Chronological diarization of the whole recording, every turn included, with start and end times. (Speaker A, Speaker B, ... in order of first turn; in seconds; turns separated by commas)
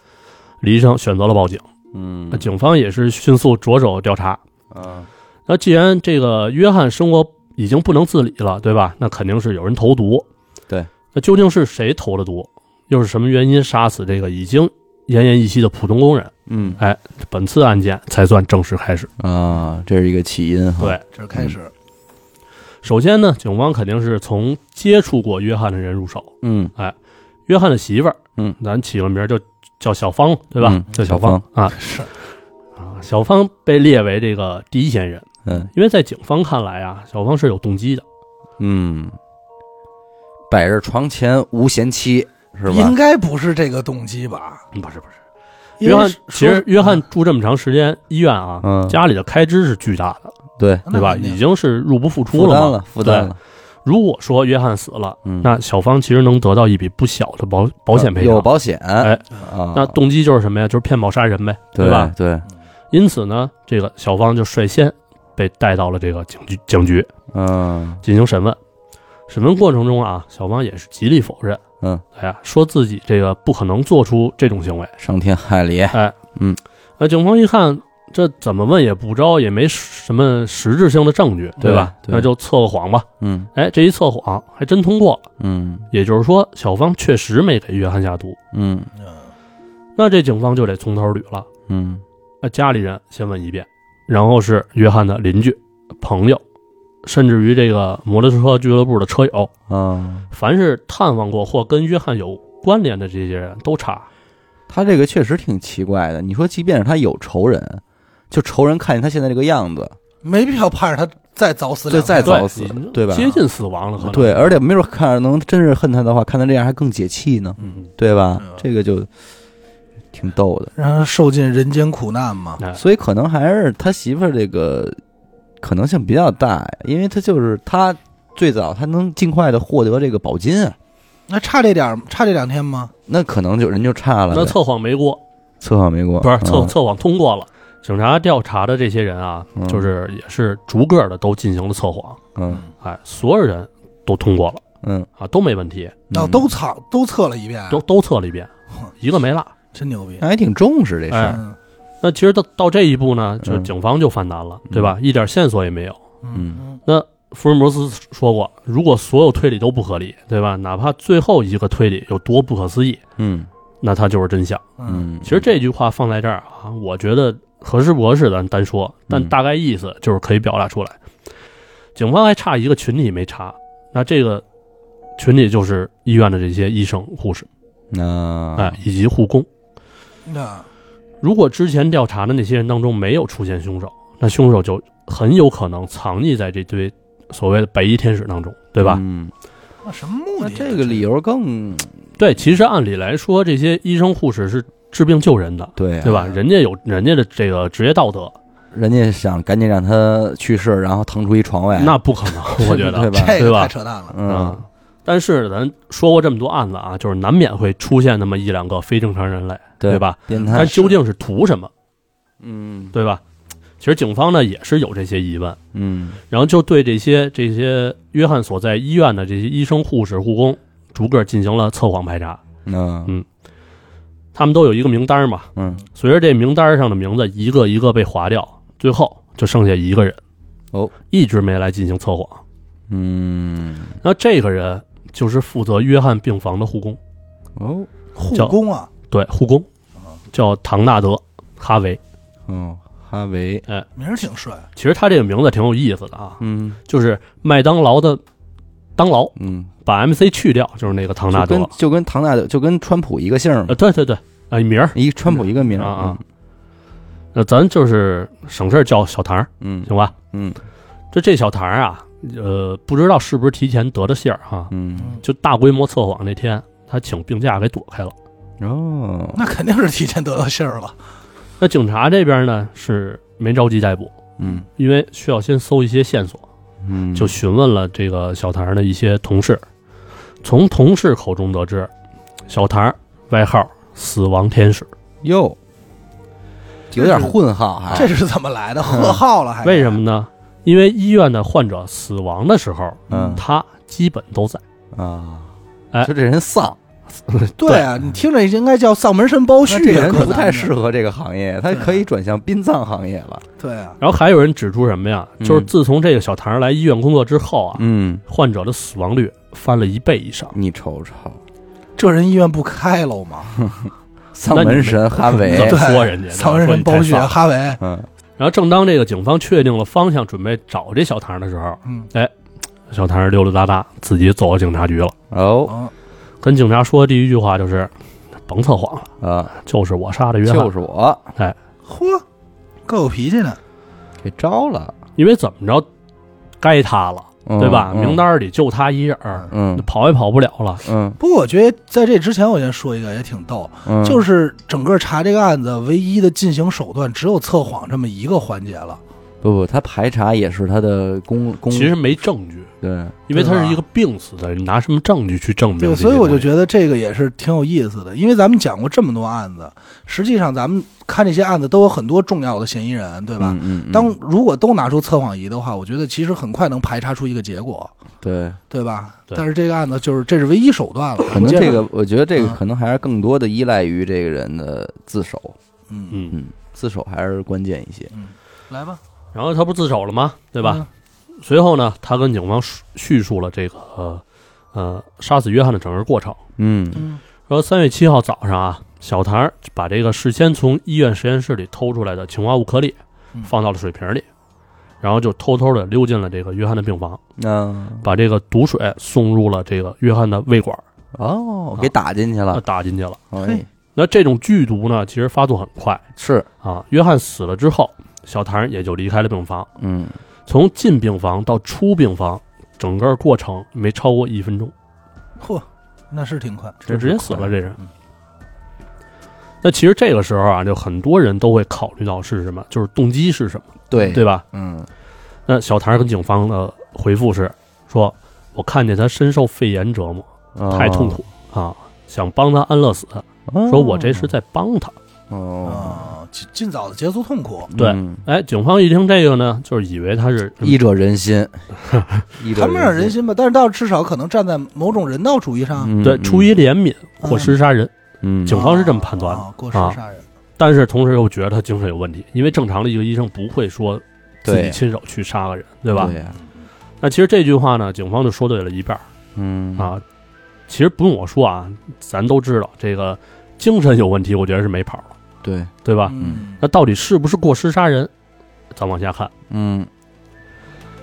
Speaker A: 0.6-1.6, Speaker B: 1.9-2.5, Speaker A: 2.3-4.4, Speaker B: 4.7-5.1, Speaker A: 5.5-10.3, Speaker A: 11.1-19.1, Speaker B: 16.5-16.8, Speaker B: 19.2-21.6, Speaker C: 21.1-21.7, Speaker A: 22.8-26.9, Speaker B: 26.4-26.7, Speaker A: 27.5-31.8, Speaker B: 30.6-31.4, Speaker C: 31.7-32.1, Speaker A: 32.8-38.0, Speaker B: 35.5-35.7, Speaker B: 38.6-39.2, Speaker B: 40.5-43.0, Speaker C: 42.7-44.6, Speaker A: 44.7-45.1, Speaker C: 45.8-47.0, Speaker A: 45.8-50.4, Speaker B: 48.6-49.0, Speaker B: 50.6-50.9, Speaker C: 50.9-51.4, Speaker A: 50.9-53.3, Speaker B: 52.3-53.4, Speaker A: 53.9-58.5, Speaker B: 55.2-55.5, Speaker B: 57.9-60.0, Speaker A: 59.0-62.1, Speaker B: 61.8-62.5, Speaker A: 62.9-67.1, Speaker B: 67.3-68.0, Speaker A: 68.0-68.6, Speaker A: 69.3-71.6, Speaker A: 72.2-74.9, Speaker B: 75.0-76.6, Speaker A: 77.0-85.2, Speaker B: 81.6-82.3, Speaker B: 83.2-83.5, Speaker B: 85.4-85.9, Speaker A: 85.9-88.4, Speaker B: 88.5-88.9, Speaker C: 89.0-89.3, Speaker A: 90.0-91.5, Speaker B: 91.7-92.0, Speaker A: 92.4-96.4, Speaker A: 97.0-99.5, Speaker B: 99.7-100.3, Speaker A: 100.3-104.1, Speaker B: 104.7-110.0, Speaker C: 110.2-112.5, Speaker B: 111.9-113.4, Speaker A: 112.2-114.6, Speaker B: 114.0-119.1, Speaker B: 120.1-120.7, Speaker C: 120.8-122.6, Speaker B: 122.8-125.0, Speaker B: 125.6-130.8, Speaker C: 131.3-132.9, Speaker B: 133.1-134.6, Speaker A: 134.3-135.2, Speaker B: 135.6-136.7, Speaker A: 136.2-142.2, Speaker B: 139.6-139.9, Speaker B: 142.3-142.6, Speaker A: 142.8-144.6, Speaker B: 144.8-145.1, Speaker A: 145.2-146.0, Speaker B: 146.1-146.5, Speaker C: 146.1-147.8, Speaker A: 147.7-149.5, Speaker C: 149.7-150.2, Speaker B: 150.2-151.4, Speaker A: 151.1-151.4, Speaker C: 151.2-151.6, Speaker A: 152.0-156.0, Speaker B: 153.4-153.7, Speaker B: 154.7-154.9, Speaker C: 156.2-156.8, Speaker B: 156.3-156.6, Speaker A: 156.9-163.0, Speaker B: 163.2-163.5, Speaker A: 163.8-164.7, Speaker C: 164.8-165.1, Speaker B: 164.9-165.5, Speaker A: 165.2-171.0, Speaker B: 169.1-169.3, Speaker A: 171.9-174.4, Speaker A: 175.2-177.5, Speaker B: 177.9-178.8, Speaker A: 178.6-179.5, Speaker C: 180.3-180.7, Speaker A: 181.2-189.0, Speaker B: 188.8-189.3, Speaker C: 189.8-191.0, Speaker B: 190.4-192.0, Speaker A: 192.2-198.3, Speaker B: 195.8-196.3, Speaker B: 198.7-202.0, Speaker A: 201.8-203.7, Speaker B: 202.5-203.4, Speaker C: 203.1-204.2, Speaker B: 204.1-204.6, Speaker A: 204.3-211.7, Speaker B: 209.8-210.8, Speaker C: 210.3-210.9, Speaker B: 212.4-212.9, Speaker A: 212.9-213.2, Speaker A: 213.8-215.6, Speaker B: 215.7-216.2, Speaker A: 216.3-222.4, Speaker B: 222.7-223.1, Speaker A: 224.3-230.2, Speaker B: 225.6-225.8, Speaker A: 231.1-232.4, Speaker B: 232.9-234.0, Speaker A: 234.0-237.0, Speaker B: 237.6-237.9, Speaker C: 238.2-238.9, Speaker A: 239.1-239.7, Speaker A: 240.3-242.0, Speaker B: 242.5-243.6, Speaker C: 244.0-244.7, Speaker A: 244.8-248.2, Speaker B: 246.4-246.8, Speaker A: 249.0-251.7, Speaker B: 249.4-249.7, Speaker B: 251.3-253.8, Speaker A: 253.7-255.0, Speaker B: 254.9-256.2, Speaker A: 255.8-256.2, Speaker A: 257.3-260.1, Speaker B: 259.6-260.6, Speaker A: 261.1-264.7, Speaker B: 264.7-265.2, Speaker A: 265.2-268.1, Speaker B: 268.6-269.4, Speaker C: 269.3-271.0, Speaker A: 271.6-274.2, Speaker B: 274.4-274.6, Speaker A: 274.8-276.4, Speaker B: 276.8-277.4, Speaker A: 277.1-279.6, Speaker A: 280.4-281.9, Speaker A: 282.5-284.9, Speaker B: 285.2-285.6, Speaker B: 286.9-288.1, Speaker C: 286.9-287.4, Speaker C: 287.9-290.0, Speaker B: 288.9-289.2, Speaker A: 289.6-294.6, Speaker C: 293.1-293.4, Speaker B: 293.1-293.4, Speaker B: 294.9-296.8, Speaker A: 297.3-297.9, Speaker C: 297.6-300.7, Speaker B: 299.7-303.4, Speaker C: 301.7-302.0, Speaker C: 303.6-304.0, Speaker A: 304.0-310.6, Speaker B: 305.4-305.7, Speaker B: 307.8-308.2, Speaker B: 310.5-311.4, Speaker C: 312.0-313.7, Speaker B: 313.7-315.8, Speaker A: 314.5-317.4, Speaker C: 315.4-317.8, Speaker B: 317.8-318.1, Speaker A: 318.4-322.3, Speaker C: 321.9-322.1, Speaker A: 322.9-325.1, Speaker B: 325.3-325.8, Speaker C: 325.7-325.9, Speaker A: 326.4-327.9, Speaker A: 328.5-330.7, Speaker B: 329.2-329.5, Speaker B: 330.4-331.3, Speaker C: 331.9-332.2, Speaker C: 332.9-333.6, Speaker B: 334.2-335.0, Speaker A: 335.2-335.9, Speaker A: 336.6-340.8, Speaker B: 337.5-338.2, Speaker B: 339.5-339.9, Speaker B: 340.8-341.2, Speaker C: 341.2-349.0, Speaker B: 343.9-344.2, Speaker B: 349.4-352.0, Speaker A: 351.7-352.7, Speaker B: 352.8-353.2, Speaker A: 353.3-356.5, Speaker C: 353.3-353.8, Speaker C: 355.8-367.9, Speaker B: 363.4-364.2, Speaker B: 368.2-368.6, Speaker C: 368.7-371.8, Speaker B: 371.3-375.6, Speaker C: 375.9-376.2, Speaker A: 376.1-376.4, Speaker B: 376.3-378.1, Speaker C: 378.1-379.0, Speaker A: 379.3-380.8, Speaker C: 380.6-380.9, Speaker A: 381.4-386.4, Speaker B: 386.6-387.0, Speaker C: 386.9-387.2, Speaker A: 387.5-394.3, Speaker A: 395.0-397.2, Speaker B: 397.4-398.1, Speaker A: 398.0-400.8, Speaker B: 401.1-402.6, Speaker A: 402.5-403.2, Speaker B: 403.3-403.7, Speaker A: 403.9-406.0, Speaker B: 406.2-406.5, Speaker A: 406.6-409.7, Speaker B: 409.8-410.2, Speaker A: 410.5-414.7, Speaker C: 415.4-416.8, Speaker B: 416.8-417.5, Speaker A: 416.9-417.8, Speaker A: 419.6-424.4, Speaker B: 423.9-424.7, Speaker C: 424.0-424.8, Speaker A: 425.5-435.0, Speaker B: 430.6-431.2, Speaker B: 433.5-434.3, Speaker B: 435.3-436.1, Speaker C: 435.6-437.7, Speaker B: 437.7-438.2, Speaker A: 437.8-440.8, Speaker B: 440.6-441.6, Speaker A: 441.9-442.2, Speaker B: 442.4-443.1, Speaker C: 442.5-445.9, Speaker B: 445.8-446.5, Speaker A: 446.0-447.9, Speaker C: 447.2-447.5, Speaker B: 448.2-448.6, Speaker A: 448.5-450.0, Speaker C: 448.5-450.2, Speaker A: 450.6-456.1, Speaker B: 454.4-454.8, Speaker C: 455.9-456.4, Speaker B: 455.9-456.4, Speaker A: 457.0-459.1, Speaker B: 459.4-459.9, Speaker A: 459.8-460.0, Speaker A: 460.7-465.1, Speaker B: 465.4-466.4, Speaker A: 465.9-468.1, Speaker C: 466.1-466.6, Speaker A: 468.7-469.3, Speaker B: 469.5-469.9